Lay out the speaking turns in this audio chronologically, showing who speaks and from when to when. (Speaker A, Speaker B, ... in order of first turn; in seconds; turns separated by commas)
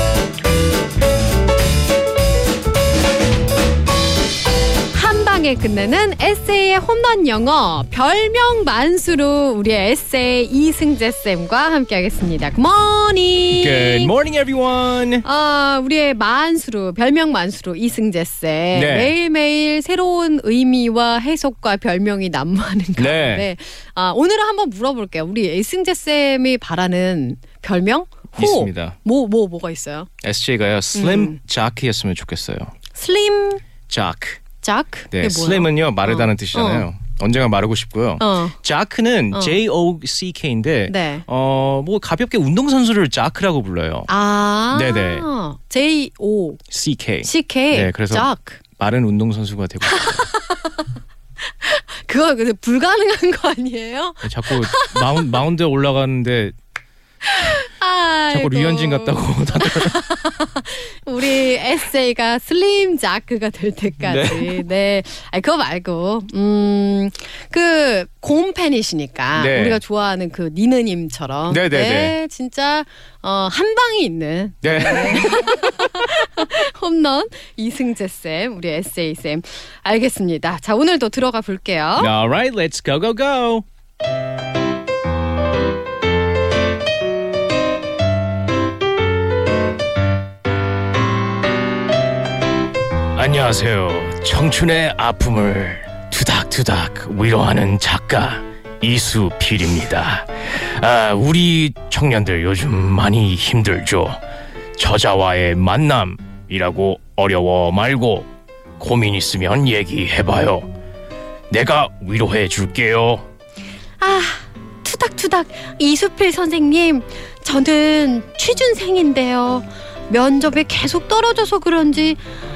Speaker A: 4.9-14.1, Speaker B: 13.5-15.2, Speaker A: 15.2-30.1, Speaker B: 18.7-19.1, Speaker B: 23.0-23.5, Speaker B: 28.4-28.9, Speaker B: 30.2-32.7, Speaker A: 30.9-31.4, Speaker A: 32.9-33.6, Speaker B: 33.9-34.4, Speaker A: 34.6-36.9, Speaker B: 35.1-44.1, Speaker A: 38.2-38.6, Speaker A: 40.9-41.2, Speaker A: 44.1-46.6, Speaker B: 44.7-45.3, Speaker B: 46.7-50.2, Speaker A: 47.2-48.6, Speaker A: 49.9-50.9, Speaker A: 51.6-55.3, Speaker B: 54.2-56.5, Speaker A: 57.2-82.1, Speaker B: 58.3-60.0, Speaker B: 64.0-64.7, Speaker B: 69.3-69.8, Speaker B: 71.5-72.1, Speaker B: 74.6-75.7, Speaker B: 82.0-83.6, Speaker B: 93.1-104.2, Speaker B: 104.8-108.3, Speaker B: 108.8-110.7, Speaker B: 111.5-113.2, Speaker A: 114.0-122.2